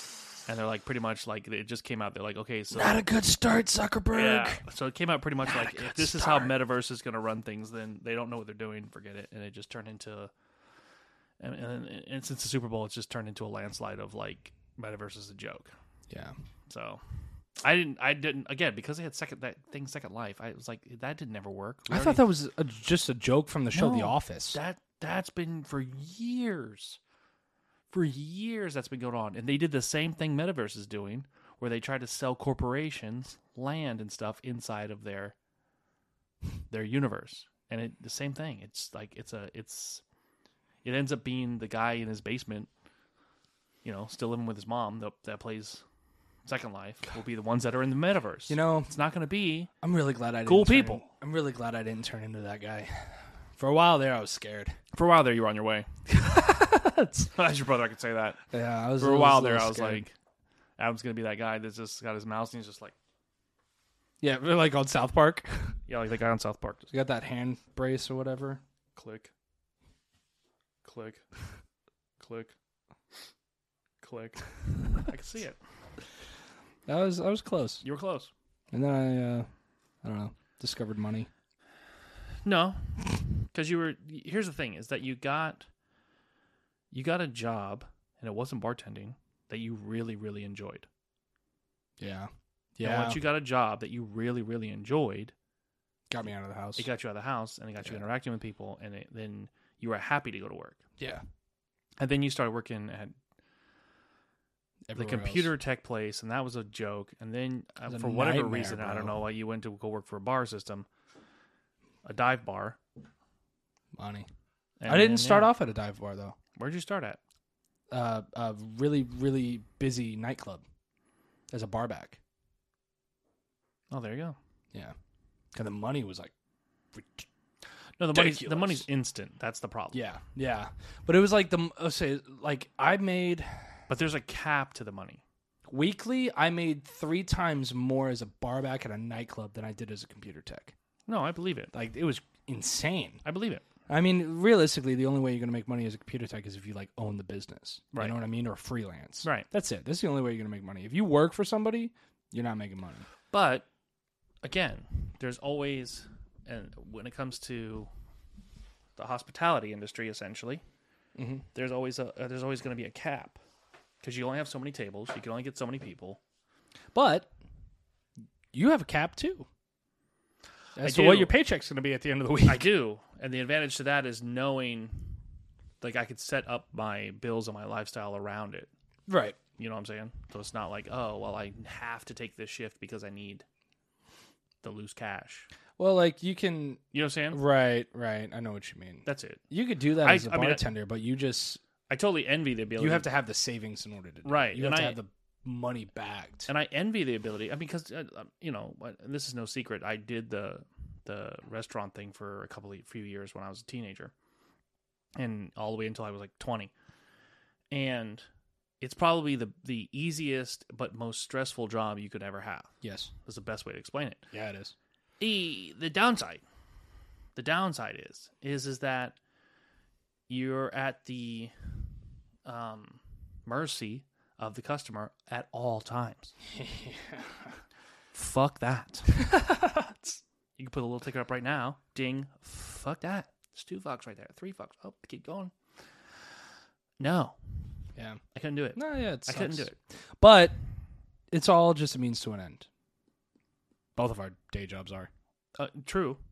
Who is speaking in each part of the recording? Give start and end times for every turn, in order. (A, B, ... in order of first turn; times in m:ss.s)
0:00.5-0:03.0 A
0:02.7-0:04.6 B
0:04.1-0:10.3 A
0:05.4-0:06.5 B
0:11.4-0:15.7 A
0:16.1-0:16.4 B
0:16.7-0:17.0 A
0:17.6-0:22.2 A
0:21.9-0:24.6 B
0:23.7-0:27.0 A
0:27.9-0:35.4 A
0:36.7-0:40.0 A
0:40.8-0:42.7 A
0:43.8-0:45.8 A
0:46.5-0:49.7 A
0:48.5-0:48.9 B
0:49.8-0:54.8 B
0:50.5-0:51.0 A
0:54.9-0:55.9 A
0:56.2-0:57.3 B
0:57.3-0:58.4 A
0:58.5-1:00.1 B
0:59.0-1:00.1 A
1:00.8-1:02.9 A
1:04.2-1:05.8 B
1:05.9-1:06.9 A
1:06.9-1:08.6 B
1:09.0-1:09.3 A
1:10.8-1:11.2 A
1:12.2-1:12.5 A
1:14.0-1:15.6 A
1:16.9-1:17.8 B
1:17.8-1:18.3 A
1:18.7-1:19.5 B
1:20.0-1:21.3 B
1:22.4-1:25.7 A
1:26.9-1:30.9 A
1:32.0-1:33.2 B
1:32.8-1:35.3 A
1:36.1-1:36.9 B
1:36.8-1:40.8 A
1:42.0-1:43.2 A
1:44.9-1:45.5 B
1:45.0-1:50.9 A
1:47.9-1:49.2 B
1:52.0-1:52.8 A
1:54.0-1:54.3 B
1:54.8-1:55.5 A
1:54.9-1:56.4 B
1:56.6-1:57.2 A
1:57.9-2:00.6 B
2:01.5-2:02.2 B
2:03.9-2:04.4 A
2:05.5-2:06.3 B
2:06.9-2:07.3 B
2:08.0-2:10.0 A
2:08.1-2:08.8 B
2:09.9-2:13.7 B
2:13.9-2:15.2 A
2:15.7-2:20.7 B
2:21.1-2:21.7 A
2:21.7-2:23.2 B
2:23.2-2:23.6 A
2:23.9-2:33.1 B
2:33.3-2:33.6 A
2:34.4-2:37.9 A
2:39.0-2:40.6 A
2:41.2-2:41.4 B
2:41.6-2:43.4 A
2:44.0-2:46.2 A
2:46.9-2:47.3 B
2:48.5-2:49.5 B
2:50.8-2:52.7 B
2:50.8-2:51.3 A
2:52.5-2:55.1 A
2:55.8-2:58.7 A
2:59.1-2:59.4 B
2:59.6-3:03.4 A
3:04.6-3:05.5 A
3:05.8-3:11.6 B
3:06.9-3:07.4 A
3:09.1-3:09.4 A
3:10.0-3:10.6 A
3:11.9-3:13.1 A
3:12.8-3:16.5 B
3:14.2-3:15.0 A
3:16.5-3:24.1 A
3:25.2-3:26.7 A
3:27.7-3:28.3 A
3:28.8-3:32.7 A
3:32.8-3:33.1 B
3:33.2-3:34.2 A
3:34.3-3:34.8 B
3:35.2-3:36.4 A
3:37.4-3:39.2 A
3:40.3-3:41.5 A
3:42.4-3:46.4 A
3:46.5-3:47.6 B
3:48.1-3:49.1 A
3:49.1-3:50.2 B
3:50.6-3:55.5 A
3:57.0-3:57.4 A
3:58.3-3:59.8 A
3:58.8-4:00.6 B
4:01.3-4:02.7 B
4:04.0-4:05.1 B
4:05.6-4:06.2 A